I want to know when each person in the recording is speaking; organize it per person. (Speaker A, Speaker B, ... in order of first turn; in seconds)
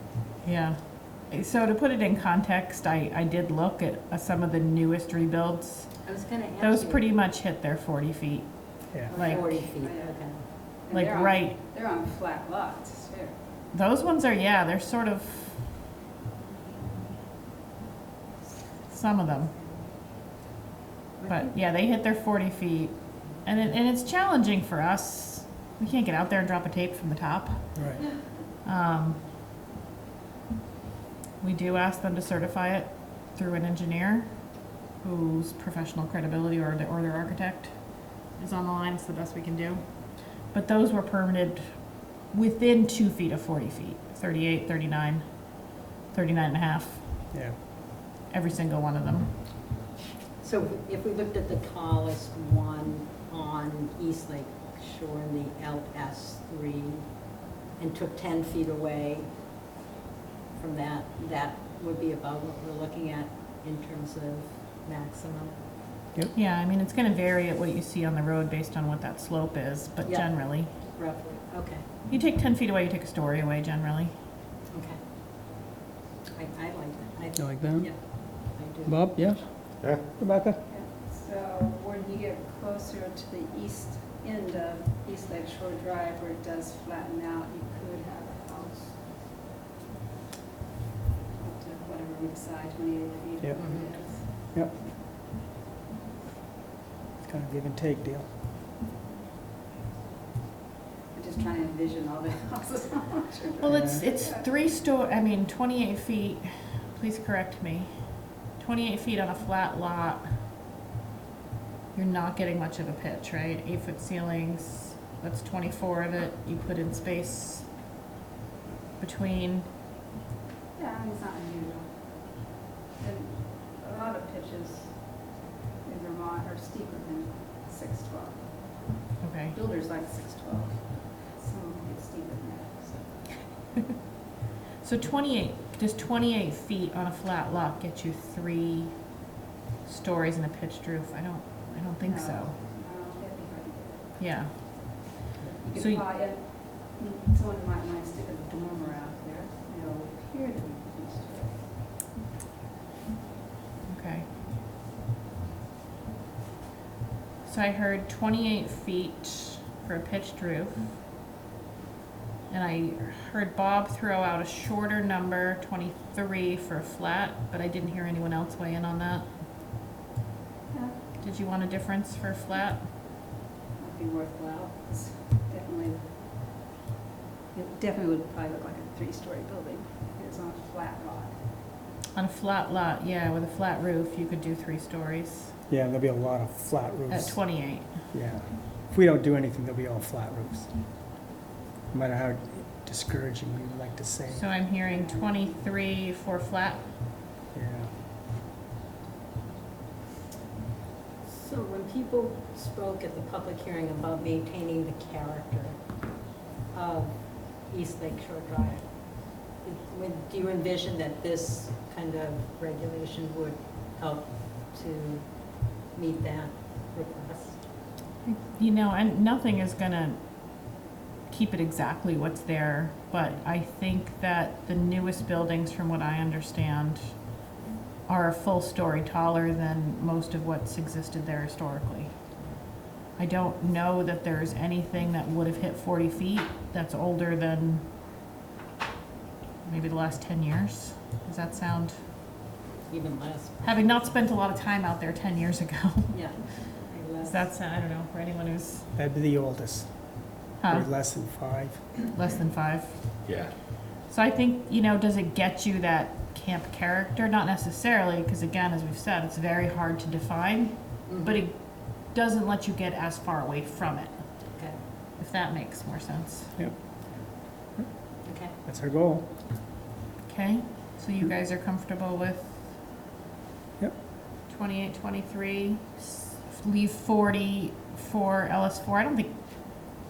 Speaker A: 0.4-9.7, 10.9-11.6, 13.7-15.7, 18.9-19.5, 21.3-27.8, 28.6-29.2, 31.4-47.2, 48.3-49.4, 66.3-70.7, 72.1-74.1, 103.6-110.3, 111.9-117.7, 119.0-119.7, 129.2-129.6, 134.8-139.1, 139.8-142.5, 144.2-145.1, 145.8-146.0, 153.9-154.3, 157.4-161.0, 162.5-169.3, 171.2-172.9, 182.1-185.5, 187.1-188.0, 194.3-196.9, 218.2-227.4, 228.1-232.3, 233.2-237.9, 239.6-242.0, 243.6-248.9, 250.6-250.9, 252.1-253.3, 254.1-264.5, 265.1-266.6, 270.2-272.8, 274.5-279.9
Speaker B: 6.0-7.0, 9.1-10.4, 50.4-59.3, 60.5-65.6, 70.0-71.9, 74.7-75.0, 76.3-79.5, 93.6-93.9, 201.2-206.1, 206.7-217.7, 242.9-244.2, 246.1-247.5, 261.1-261.4, 264.6-264.8, 268.2-268.5
Speaker C: 9.1-13.4, 80.7-89.0, 91.3-94.5, 101.1-104.4, 120.8-133.3, 142.0-144.6, 145.6-151.6, 170.7-171.0, 173.8-176.1, 177.5-181.4, 194.8-195.6
Speaker D: 27.8-28.1, 47.3-47.6, 77.3-78.2, 78.8-80.6, 93.4-94.8, 97.2-98.3, 103.7-104.0, 185.7-190.9, 191.9-194.5, 197.5-197.9, 248.9-251.9, 266.6-269.3